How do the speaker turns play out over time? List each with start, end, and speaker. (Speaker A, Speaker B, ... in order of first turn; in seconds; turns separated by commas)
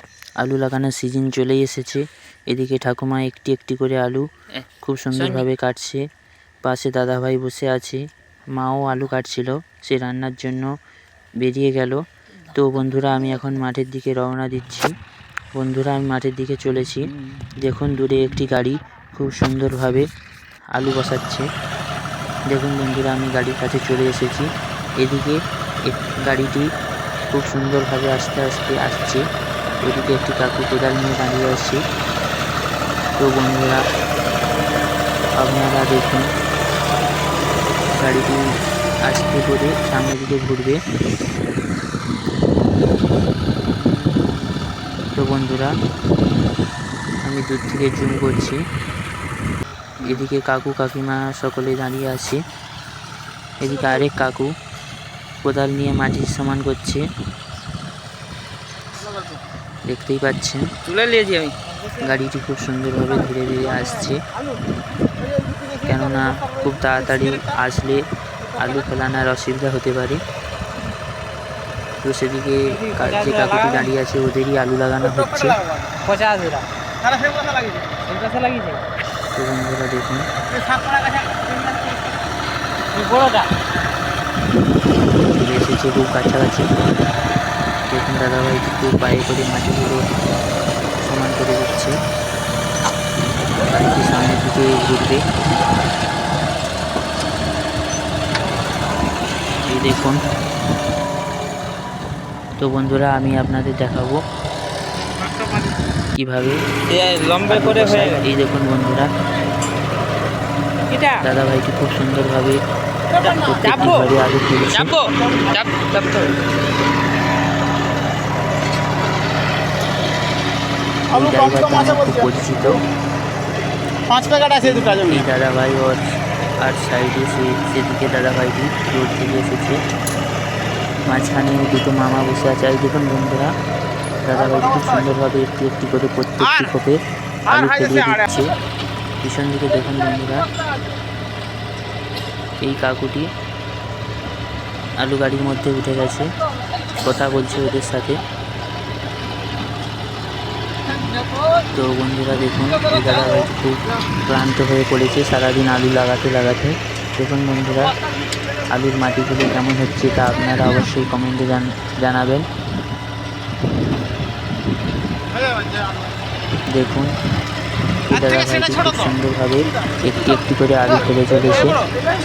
Speaker A: 0.4-4.2, Speaker A: 4.8-6.0, Speaker B: 5.1-5.5, Speaker A: 6.6-8.0, Speaker A: 8.6-10.7, Speaker A: 11.4-12.0, Speaker A: 12.5-14.9, Speaker A: 15.6-17.1, Speaker A: 17.6-20.1, Speaker A: 20.8-21.4, Speaker A: 22.5-24.5, Speaker A: 25.0-26.7, Speaker A: 27.3-29.2, Speaker A: 29.8-31.8, Speaker A: 33.2-33.8, Speaker A: 35.4-36.3, Speaker A: 37.9-38.4, Speaker A: 39.1-40.8, Speaker A: 45.2-45.7, Speaker A: 47.2-48.6, Speaker A: 50.0-52.4, Speaker A: 53.6-54.5, Speaker A: 55.4-57.0, Speaker A: 59.9-60.7, Speaker B: 60.8-62.1, Speaker A: 62.0-64.2, Speaker C: 65.4-66.5, Speaker A: 65.8-70.2, Speaker C: 67.2-67.6, Speaker A: 72.0-75.6, Speaker B: 72.7-73.9, Speaker C: 75.1-76.0, Speaker B: 76.0-76.7, Speaker C: 77.0-77.9, Speaker B: 78.0-78.8, Speaker A: 79.3-80.3, Speaker C: 80.5-82.1, Speaker B: 82.9-83.5, Speaker A: 85.4-86.7, Speaker A: 87.9-90.0, Speaker A: 91.0-91.9, Speaker A: 93.6-95.2, Speaker A: 99.7-100.2, Speaker A: 102.6-104.2, Speaker B: 105.3-105.6, Speaker A: 106.2-106.6, Speaker B: 106.9-108.2, Speaker A: 107.5-109.1, Speaker B: 110.9-111.2, Speaker A: 111.2-112.6, Speaker C: 113.2-114.1, Speaker B: 113.2-114.1, Speaker A: 113.5-114.9, Speaker B: 114.7-116.3, Speaker A: 121.1-122.8, Speaker C: 121.2-122.2, Speaker C: 124.1-125.3, Speaker A: 124.6-126.0, Speaker A: 126.6-129.8, Speaker A: 131.1-133.5, Speaker A: 134.2-138.5, Speaker C: 137.6-138.3, Speaker A: 139.2-140.5, Speaker A: 142.6-143.3, Speaker A: 145.0-146.3, Speaker A: 147.0-148.2, Speaker A: 151.7-157.9, Speaker A: 158.7-162.4, Speaker C: 165.4-165.9, Speaker A: 166.7-167.1, Speaker A: 168.1-171.8, Speaker C: 168.1-169.1, Speaker C: 171.5-171.8